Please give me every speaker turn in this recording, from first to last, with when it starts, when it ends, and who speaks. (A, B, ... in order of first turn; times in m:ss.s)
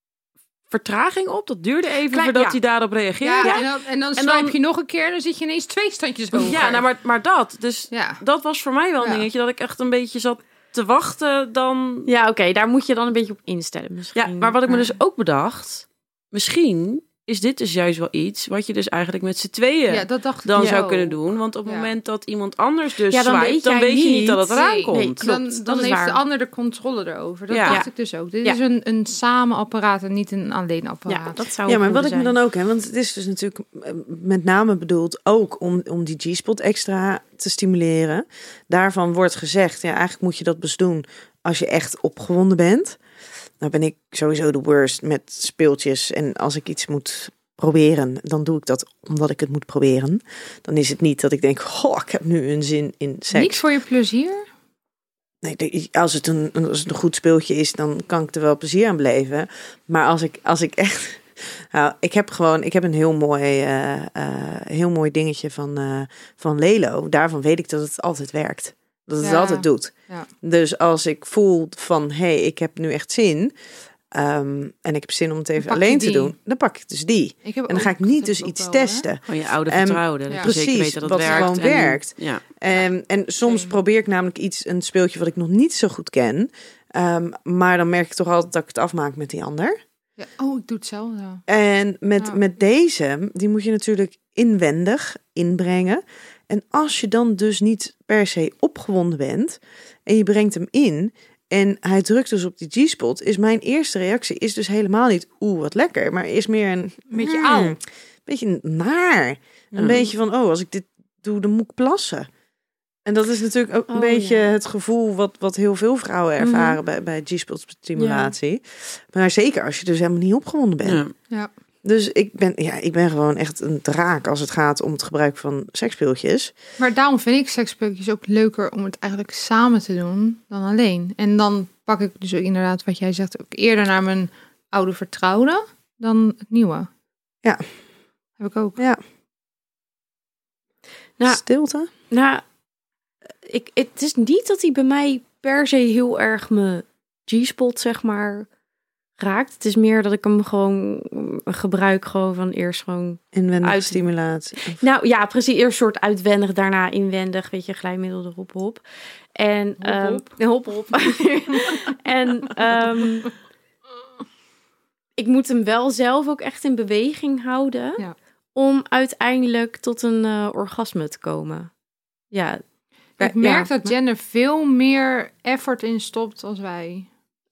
0:00.7-0:04.6 A
0:02.1-0:02.6 B
0:03.2-0:06.8 C
0:06.3-0:12.1 A
0:07.9-0:08.2 C
0:09.0-0:09.2 C
0:12.1-0:14.9 B
0:14.2-0:25.2 A
0:19.9-0:21.9 C
0:20.6-0:20.8 B
0:23.1-0:26.2 B
0:24.4-0:31.4 C
0:27.5-0:27.8 A
0:27.6-0:27.9 B
0:31.1-0:32.4 B
0:31.6-0:43.0 D
0:43.6-0:53.6 D
0:53.3-0:54.4 C
0:55.4-1:13.5 D
1:09.2-1:10.3 C
1:14.1-1:29.8 D
1:15.6-1:16.3 C
1:17.4-1:19.1 C
1:19.3-1:22.4 A
1:21.2-1:21.6 C
1:23.4-1:23.7 C
1:30.2-1:31.4 C
1:31.5-1:52.3 D
1:47.1-1:47.8 C
1:49.7-1:50.0 A
1:53.0-2:01.0 D
1:53.9-1:54.5 B
1:56.4-1:56.8 B
1:58.0-1:58.3 B
2:00.8-2:01.1 A
2:01.8-2:06.5 D
2:06.8-2:16.9 C
2:18.4-2:18.8 C
2:21.2-2:21.9 D
2:22.1-2:22.4 B
2:23.4-2:28.5 B
2:29.2-2:34.0 B
2:33.3-2:34.8 D
2:34.6-2:38.8 B
2:39.4-2:43.3 B
2:39.8-2:40.3 C
2:45.2-2:48.0 B
2:48.5-2:51.7 B
2:52.3-2:52.6 B
2:53.2-2:53.9 B
2:53.2-2:57.1 C